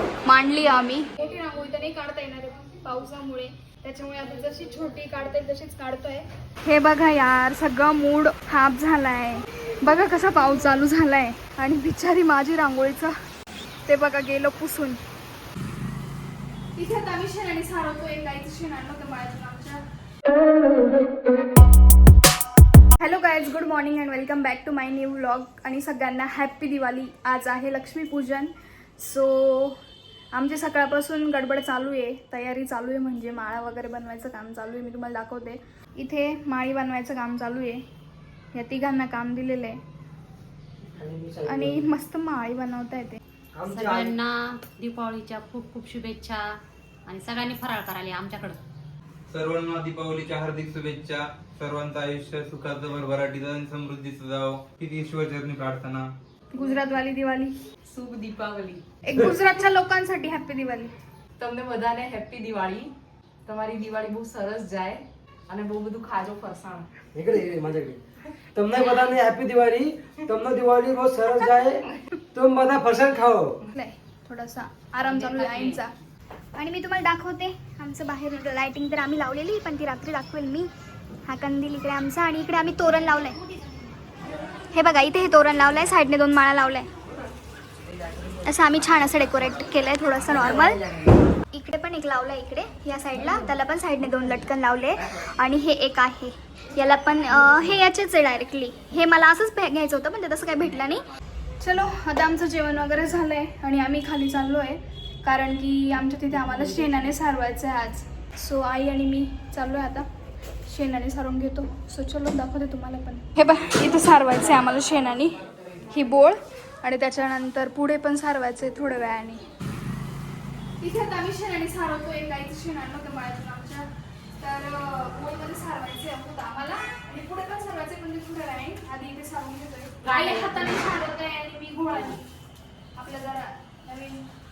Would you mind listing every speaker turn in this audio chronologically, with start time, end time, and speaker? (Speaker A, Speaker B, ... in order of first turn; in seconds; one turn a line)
Speaker A: 0.2-13.2
Speaker A: 13.9-15.0
Speaker A: 16.8-19.8
Speaker A: 23.0-29.8
Speaker A: 30.3-37.8
Speaker A: 38.5-39.8
Speaker B: 40.9-41.9
Speaker A: 41.5-43.2
Speaker B: 43.5-44.2
Speaker C: 43.7-48.6
Speaker D: 49.3-56.1
Speaker A: 56.5-57.6
Speaker E: 56.5-56.9
Speaker E: 57.8-58.8
Speaker A: 59.0-60.9
Speaker E: 61.4-62.9
Speaker E: 63.5-66.9
Speaker B: 67.1-68.0
Speaker B: 68.5-73.6
Speaker A: 73.8-75.9
Speaker C: 75.0-75.8
Speaker A: 76.6-80.7
Speaker A: 81.3-83.4
Speaker A: 84.7-86.9
Speaker A: 88.4-90.9
Speaker A: 91.5-101.0
Speaker A: 101.6-110.1
Speaker A: 110.7-119.5
Speaker A: 120.8-132.3
Speaker C: 130.0-130.8
Speaker A: 133.0-134.2